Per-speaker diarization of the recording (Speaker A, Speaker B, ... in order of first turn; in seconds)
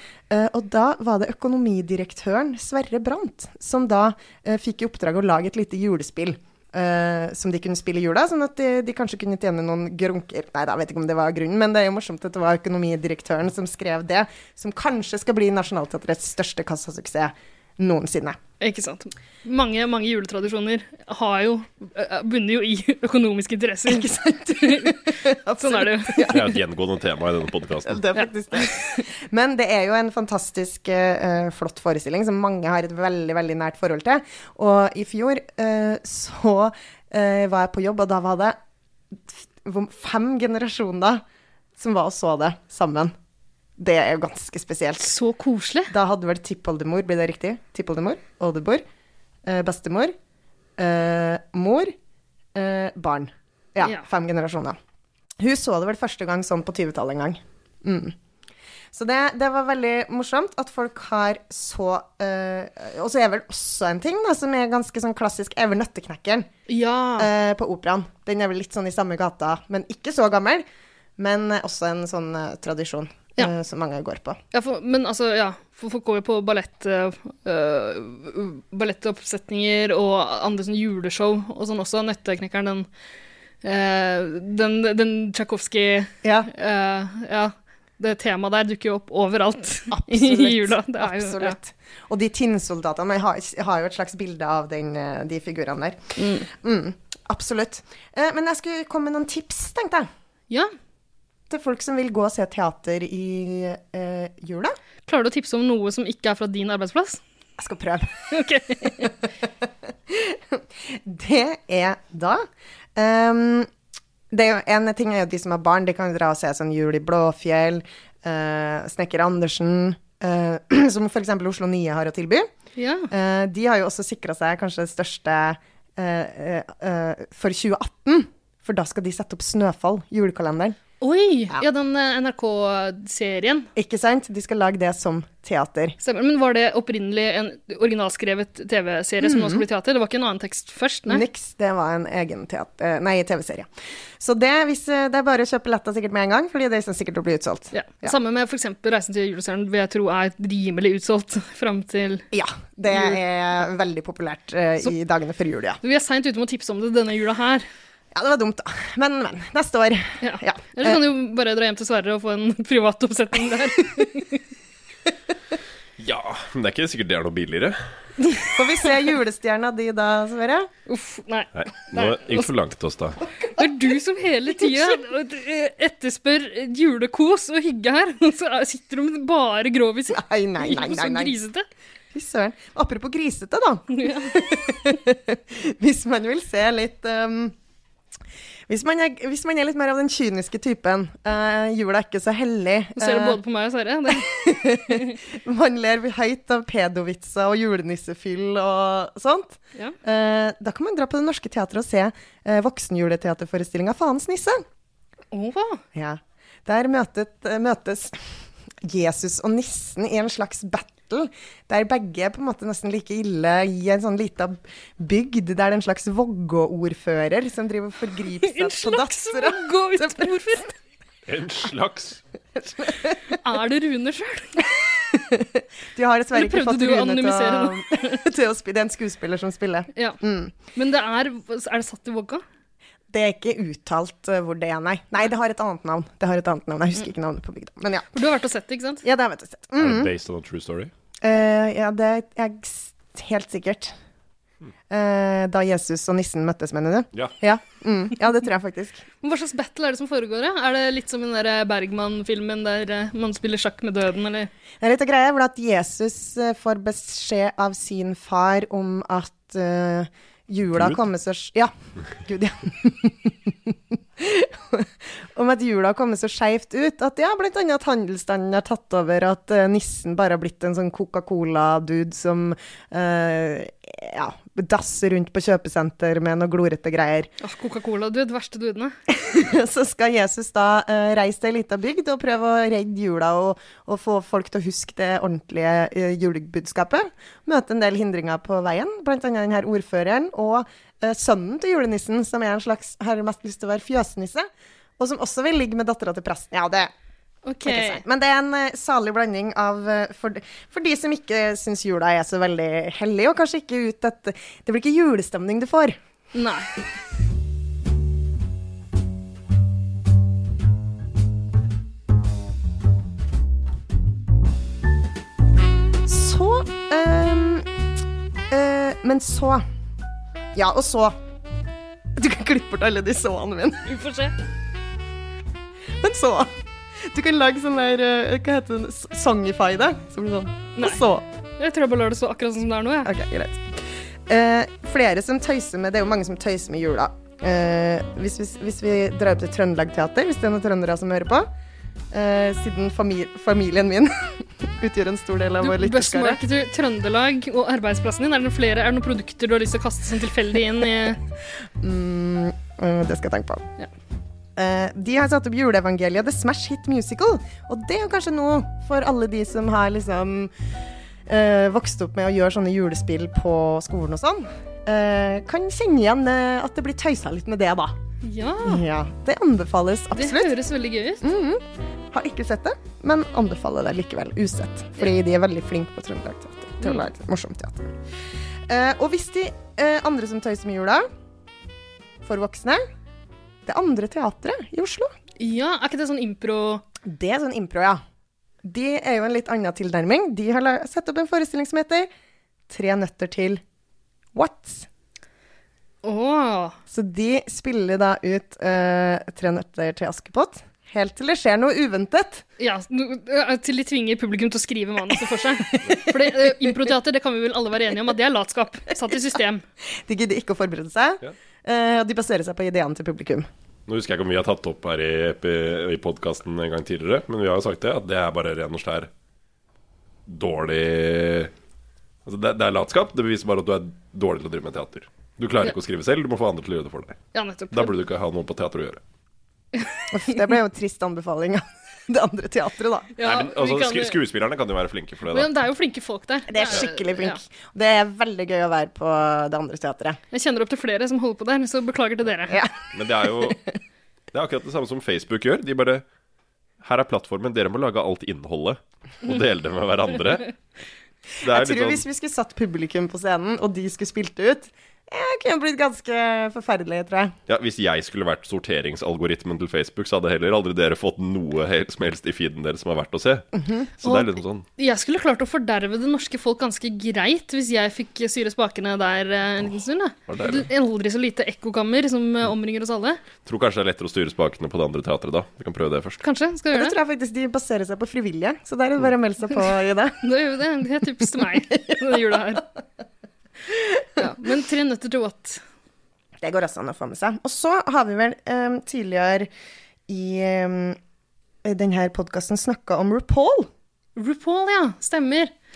Speaker A: 0.3-18.4, 23.9-26.5, 27.9-38.6, 39.3-41.2, 41.8-43.1, 43.8-45.1, 45.9-48.8, 49.5-50.1, 50.8-52.0, 52.5-54.8, 55.4-58.1, 58.9-66.5, 67.2-70.7, 71.2-74.4, 86.2-86.5, 89.9-100.1, 101.5-104.8, 107.6-108.1, 109.0-112.4, 113.0-113.7, 114.3-122.5, 123.1-130.8, 133.8-136.0, 139.2-139.7, 141.1-148.1, 152.3-155.8, 158.1-161.0, 168.5-170.7, 180.1-181.4, 182.1-187.6, 188.7-193.4, 194.1-204.7, 205.9-208.2, 208.8-220.5, 222.6-223.4, 224.9-230.6, 233.1-238.1, 239.0-240.1, 241.2-243.9, 244.9-249.1, 254.8-277.3, 279.1-294.5, 295.0-296.9, 297.6-306.0, 316.1-317.7, 318.5-319.6, 320.5-321.2, 322.2-323.9, 326.0-331.3, 333.0-341.5, 342.1-346.4, 351.8-353.7, 354.6-360.5, 361.3-367.9, 368.6-370.5, 371.2-378.0, 378.7-381.1, 382.2-382.8, 383.6-385.1, 387.0-388.0, 388.6-392.1, 392.7-393.6, 394.3-394.9, 396.9-402.4, 405.7-406.8, 409.9-413.5, 430.1-433.1, 436.5-440.2, 442.5-443.6, 451.5-457.4, 463.5-463.9, 476.7-480.2, 481.7-482.2, 483.7-484.2, 486.4-489.5, 490.1-491.0, 491.6-493.7
Speaker B: 18.6-26.4, 45.0-45.9, 66.7-67.3, 74.5-82.9, 83.6-91.6, 96.2-96.5, 105.1-107.2, 108.3-109.2, 122.8-123.1, 131.0-133.7, 136.0-141.2, 147.7-152.2, 152.9-153.2, 155.8-157.7, 160.2-164.5, 168.2-168.5, 170.9-172.5, 173.6-181.7, 183.9-184.6, 193.0-195.1, 205.3-205.8, 218.4-220.8, 223.3-224.7, 226.3-228.2, 230.7-232.4, 238.1-239.0, 249.2-254.5, 277.4-278.9, 297.4-298.0, 306.3-306.7, 323.9-324.4, 330.8-331.0, 331.6-333.1, 345.6-351.2, 368.2-368.9, 370.1-371.3, 376.8-377.1, 385.4-386.8, 396.0-396.8, 402.6-409.6, 427.3-428.0, 433.2-434.2, 435.3-437.4, 440.3-442.6, 464.0-473.2, 476.2-477.0, 480.2-482.7, 484.2-485.6, 494.2-495.5
Speaker C: 26.3-28.1, 166.0-167.8, 171.6-173.2, 221.3-222.2, 239.8-240.9, 413.9-419.1, 420.3-421.5, 422.3-427.2, 427.7-429.0, 433.2-435.5, 442.9-443.6, 444.3-446.0, 446.8-450.5, 451.4-452.1, 457.5-463.5, 464.0-464.6, 470.3-470.7, 473.4-476.2